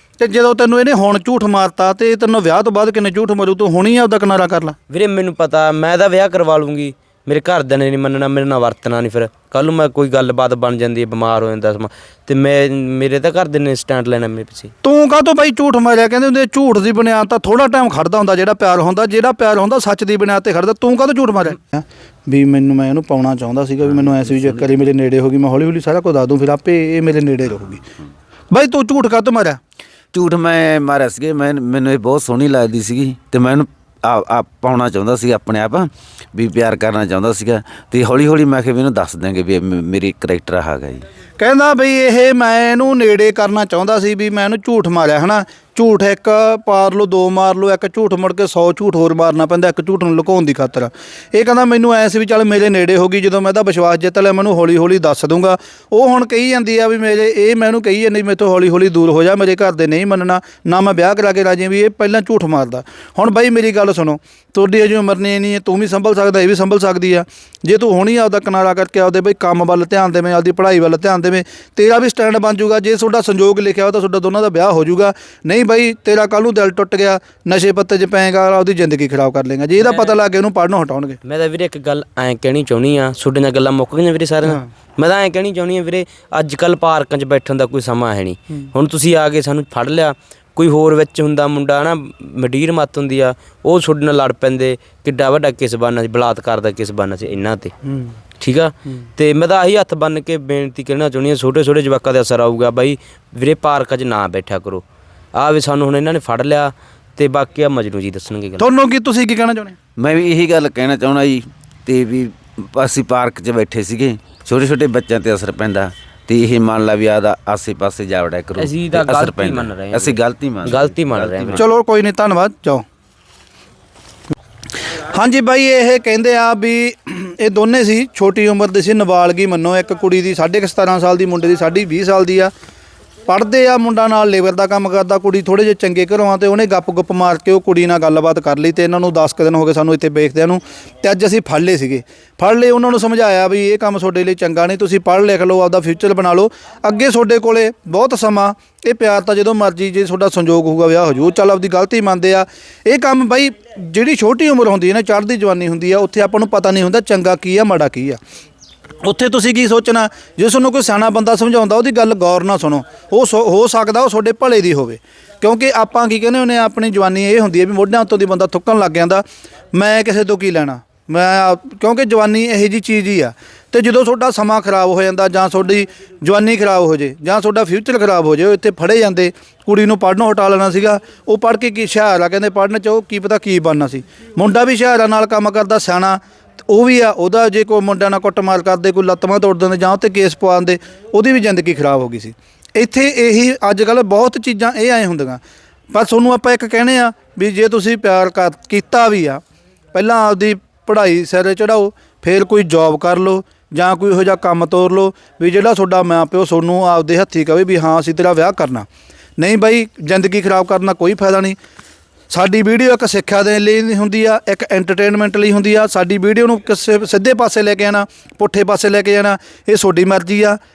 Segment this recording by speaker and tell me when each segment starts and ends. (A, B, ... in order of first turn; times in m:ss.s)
0:00.2-0:04.8 A
0:04.9-0:14.7 B
0:14.8-0:27.8 A
0:24.0-0:24.5 C
0:28.5-0:29.6 A
0:30.1-0:41.0 C
0:41.4-1:21.2 A
1:19.8-1:20.2 B
1:21.2-1:37.7 B
1:38.4-1:48.7 B
1:48.6-1:49.8 A
1:50.0-2:01.7 C
1:58.6-2:01.6 B
2:01.6-2:02.8 A
2:05.1-2:12.5 A
2:13.3-2:38.2 A
2:39.0-2:49.2 A
2:49.7-3:15.4 A
3:15.9-3:19.4 A
3:19.9-3:28.9 A
3:29.4-3:31.6 A
3:32.3-3:40.6 A